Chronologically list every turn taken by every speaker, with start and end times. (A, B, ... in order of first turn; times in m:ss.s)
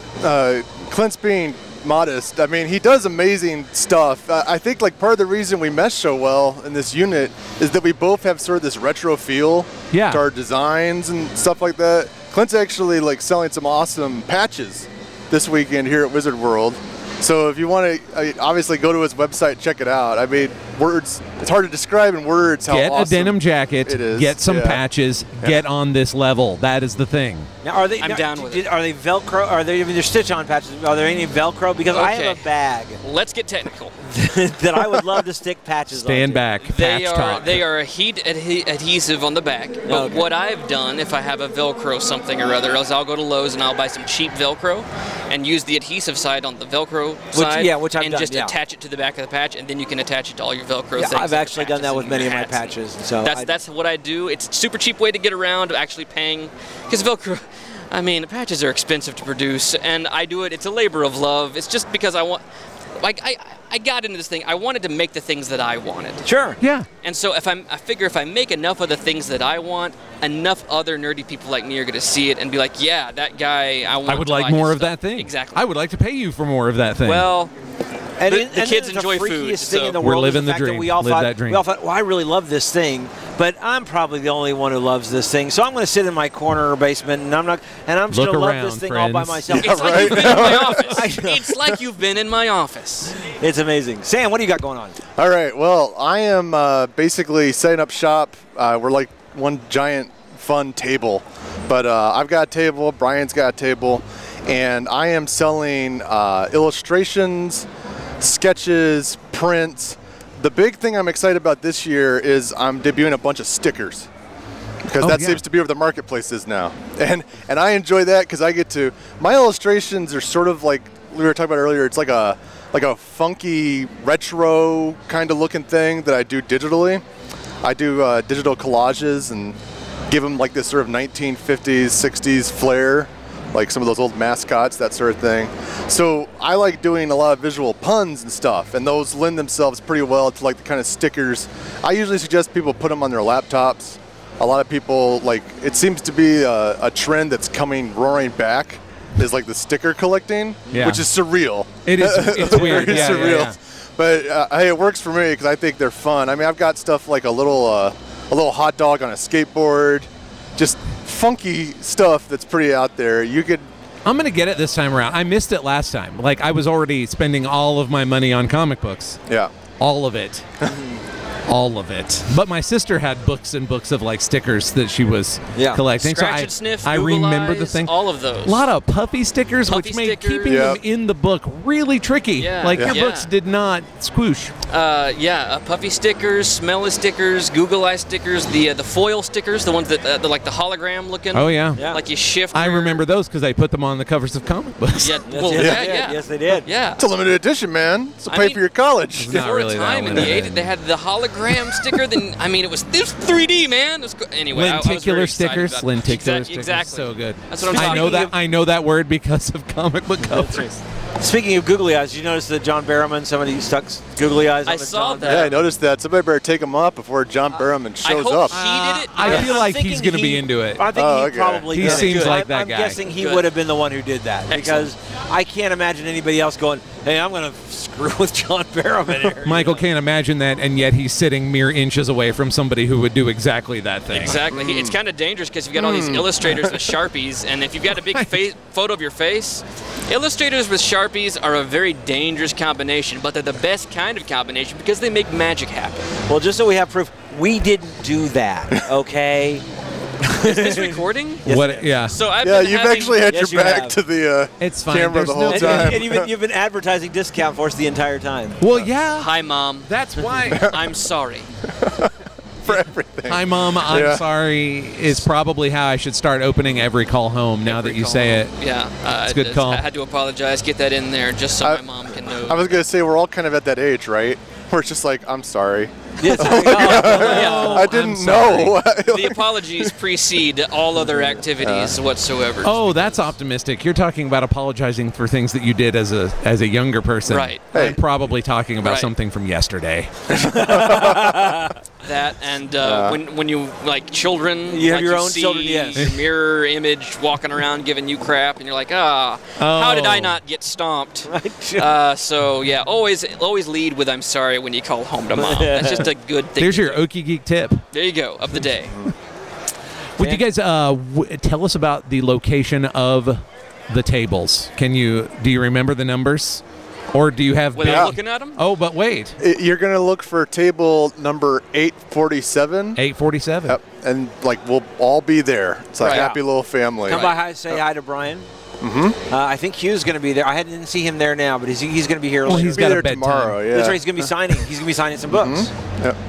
0:00.2-0:24.8 A
0:09.9-0:10.2 B
0:22.7-0:27.5 B
0:27.6-0:33.0 C
0:28.0-0:28.7 D
0:31.9-0:32.5 D
0:33.0-0:33.9 D
0:34.0-0:36.5 C
0:35.9-0:37.6 B
0:36.6-1:02.4 D
0:39.9-0:40.3 C
0:47.3-0:48.6 C
0:51.0-0:53.5 C
1:03.0-1:06.3 D
1:06.2-1:06.6 C
1:06.6-1:06.9 B
1:07.0-1:15.6 D
1:14.0-1:17.3 B
1:17.0-1:17.5 D
1:18.2-1:31.5 C
1:18.2-1:20.0 D
1:20.0-1:21.6 B
1:28.1-1:29.6 B
1:29.5-1:31.0 A
1:29.5-1:33.1 D
1:33.4-1:35.0 C
1:35.2-1:47.7 A
1:48.2-1:54.1 A
1:54.8-2:07.0 A
1:55.0-1:55.4 B
2:07.6-2:09.6 A
2:10.1-2:43.7 A
2:30.7-2:31.0 C
2:30.7-2:31.0 B
2:31.8-2:33.6 B
2:32.5-2:33.4 C
2:44.0-2:49.2 B
2:49.8-2:50.4 B
2:50.7-2:50.9 C
2:51.5-3:04.6 B
2:55.6-2:55.9 C
2:56.0-2:58.7 D
2:59.7-3:00.7 D
3:00.5-3:00.8 A
3:02.4-3:03.3 D
3:04.7-3:13.0 D
3:11.3-3:11.9 B
3:11.8-3:12.0 C
3:12.5-3:15.2 B
3:15.0-3:17.0 D
3:15.3-3:16.7 C
3:15.6-3:16.0 A
3:17.0-3:19.4 A
3:18.3-3:18.6 D
3:19.2-3:20.7 B
3:19.3-3:28.3 D
3:24.5-3:30.7 B
3:27.6-3:28.3 C
3:30.2-3:35.6 C
3:34.6-3:35.6 D
3:35.2-3:38.6 A
3:38.0-3:39.7 D
3:38.5-3:40.9 B
3:39.2-3:49.8 C
3:40.9-3:42.3 A
3:41.7-3:43.0 B
3:43.1-3:43.5 D
3:44.5-3:44.9 D
3:49.4-3:54.4 B
3:54.1-4:06.0 D
3:54.5-3:55.0 A
3:55.7-3:57.0 A
3:57.9-3:58.4 B
4:06.3-4:09.6 C
4:10.2-4:12.0 C
4:10.4-4:13.6 D
4:11.4-4:12.2 B
4:12.4-4:16.3 A
4:13.3-4:14.0 C
4:14.6-4:16.0 B
4:15.5-4:18.6 C
4:18.6-4:19.3 B
4:19.1-4:19.9 D
4:19.8-4:20.7 B
4:20.5-4:21.5 D
4:20.5-4:20.8 A
4:21.8-4:22.1 A
4:22.6-4:24.2 A
4:22.7-4:28.5 B
4:27.6-4:32.8 D
4:29.3-4:29.8 B
4:31.6-4:39.9 A
4:36.2-4:37.9 C
4:36.4-4:37.9 D
4:36.9-4:38.8 B
4:38.9-4:43.2 D
4:41.6-4:42.0 A
4:42.6-4:50.1 B
4:47.3-4:47.7 D
4:47.7-4:48.0 A
4:48.8-4:49.1 D
4:50.3-4:51.4 A
4:50.5-4:51.7 C
4:52.0-5:07.0 D
4:52.8-4:53.2 A
4:54.7-4:56.2 C
4:59.6-5:00.4 B
5:01.3-5:02.0 C
5:05.3-5:06.1 C
5:06.6-5:07.8 B
5:07.9-5:09.0 D
5:10.2-5:19.4 B
5:17.7-5:18.6 D
5:17.9-5:18.1 A
5:19.4-5:23.0 A
5:23.0-5:23.8 B
5:23.7-5:27.8 A
5:26.0-5:26.4 D
5:27.0-5:27.4 D
5:27.0-5:28.5 C
5:28.8-5:29.2 A
5:29.3-5:33.0 C
5:32.4-5:33.7 B
5:32.5-5:34.6 A
5:33.7-5:35.7 C
5:35.3-5:36.2 A